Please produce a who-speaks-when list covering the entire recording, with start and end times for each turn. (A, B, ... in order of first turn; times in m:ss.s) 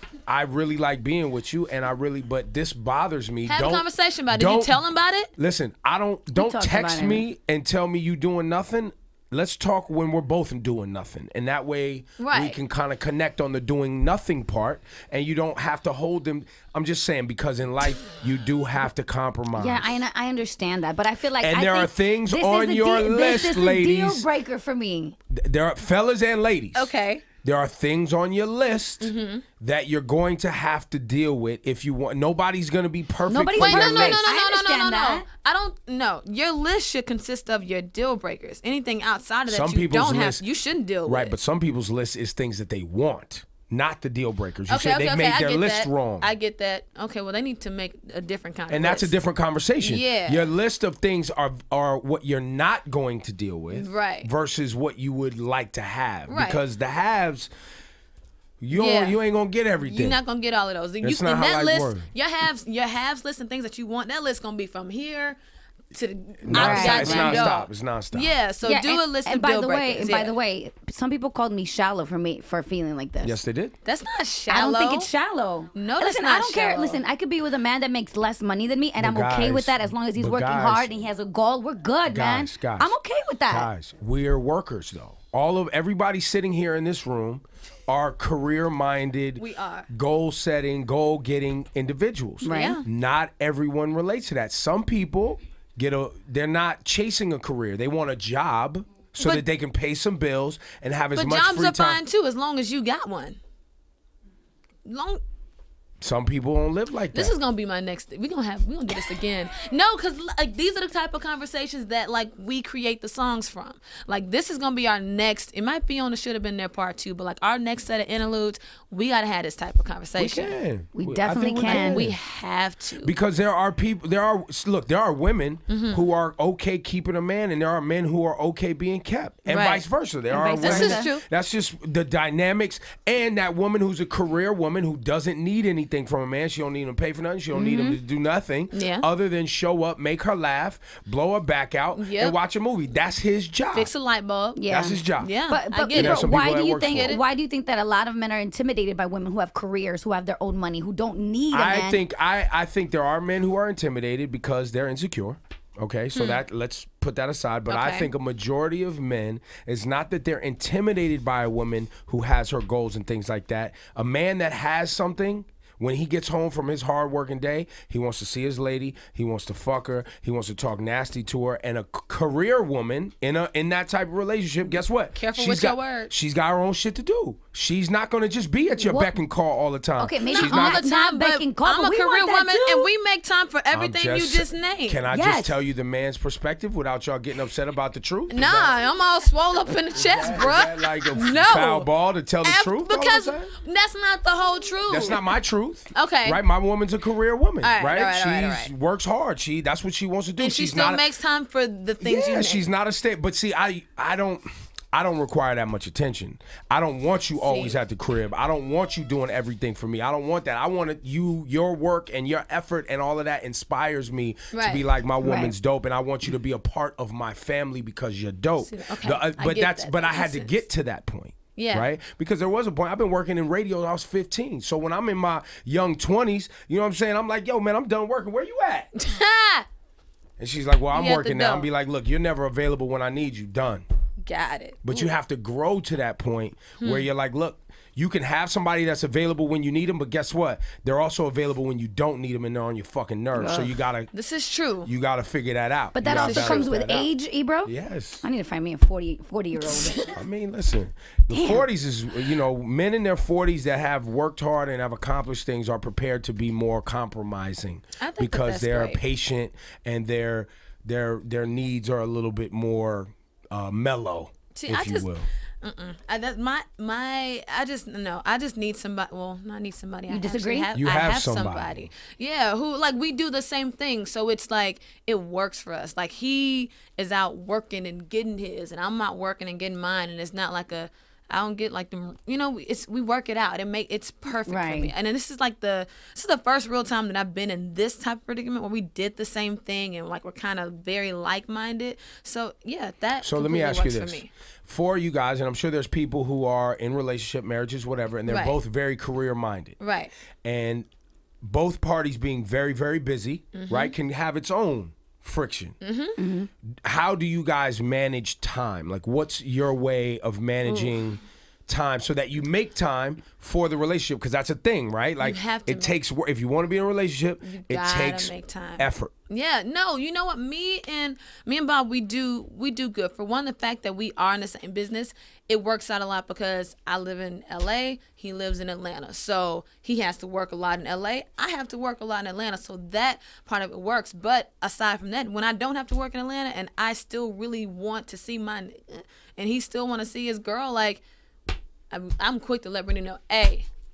0:00.3-0:04.8 A
0:03.5-0:05.3 B
0:05.4-0:20.0 A
0:06.3-0:07.2 C
0:12.2-0:12.6 B
0:19.6-0:25.2 C
0:21.4-0:24.3 A
0:25.3-0:26.9 A
0:26.7-0:27.2 B
0:27.4-0:34.2 A
0:29.0-0:29.4 B
0:33.3-0:35.2 C
0:33.6-0:41.3 B
0:39.5-0:40.4 A
0:41.0-0:46.3 A
0:44.7-0:49.1 B
0:48.7-0:57.5 A
0:49.8-0:50.5 B
0:53.7-0:54.3 B
0:56.3-0:56.6 B
0:58.6-1:00.2 A
0:58.7-0:59.2 B
0:59.8-1:05.4 B
1:01.0-1:02.1 A
1:05.9-1:10.3 B
1:06.4-1:08.3 A
1:06.5-1:07.5 C
1:08.6-1:13.4 C
1:13.2-1:13.7 A
1:13.8-1:15.1 B
1:14.5-1:23.7 C
1:15.7-1:17.0 B
1:19.0-1:20.9 A
1:22.0-1:22.9 A
1:23.5-1:42.0 A
1:29.4-1:29.9 B
1:32.4-1:32.8 C
1:32.5-1:32.8 B
1:41.2-1:43.4 B
1:44.8-1:45.2 B
1:46.0-1:47.3 A
1:47.1-2:00.6 B
2:00.2-2:02.2 A
2:00.9-2:02.1 C
2:01.6-2:03.1 B
2:03.0-2:23.9 A
2:05.7-2:06.0 B
2:09.5-2:09.8 B
2:10.3-2:11.1 C
2:10.6-2:11.2 B
2:17.5-2:18.0 C
2:18.7-2:19.1 B
2:22.0-2:22.4 B
2:23.7-2:24.6 B
2:24.6-2:32.0 C
2:24.7-2:25.3 A
2:25.2-2:27.2 B
2:25.9-2:27.2 A
2:31.5-3:00.8 A
2:36.1-2:36.4 B
2:37.7-2:38.1 B
2:55.1-2:56.1 B
2:58.8-2:59.1 C
3:00.0-3:02.9 C
3:00.2-3:05.0 B
3:03.7-3:08.8 A
3:05.1-3:05.5 C
3:08.3-3:11.9 B
3:09.9-3:13.5 A
3:12.4-3:15.3 B
3:14.9-3:21.0 A
3:15.9-3:16.4 B
3:17.6-3:18.7 B
3:20.4-3:22.6 B
3:22.0-3:48.9 A
3:27.4-3:27.8 B
3:34.5-3:34.8 B
3:35.2-3:35.5 C
3:38.6-3:40.5 B
3:41.6-3:41.9 B
3:49.0-3:49.7 B
3:50.4-3:53.8 A
3:50.9-3:51.7 B
3:54.2-3:55.1 B
3:54.8-4:04.1 A
3:56.8-3:57.1 B
4:03.4-4:03.7 C
4:04.1-4:04.9 B
4:04.8-4:07.1 A
4:05.9-4:10.1 C
4:06.0-4:06.8 B
4:07.6-4:08.2 A
4:09.6-4:10.1 B
4:10.1-4:25.3 A
4:11.3-4:11.6 C
4:18.0-4:19.0 B
4:24.5-4:25.1 B
4:25.6-4:54.3 B
4:30.1-4:30.7 C
4:30.7-4:31.9 A
4:44.4-4:44.9 C
4:53.2-4:59.8 A
4:58.3-4:58.6 B
4:59.8-5:00.1 B
5:00.4-5:00.9 A
5:01.4-5:05.8 A
5:03.5-5:03.9 B
5:05.8-5:06.2 B
5:06.2-5:06.5 C
5:06.8-5:19.1 A
5:10.6-5:11.0 B
5:15.2-5:16.0 B
5:17.4-5:41.0 B
5:41.9-5:43.7 B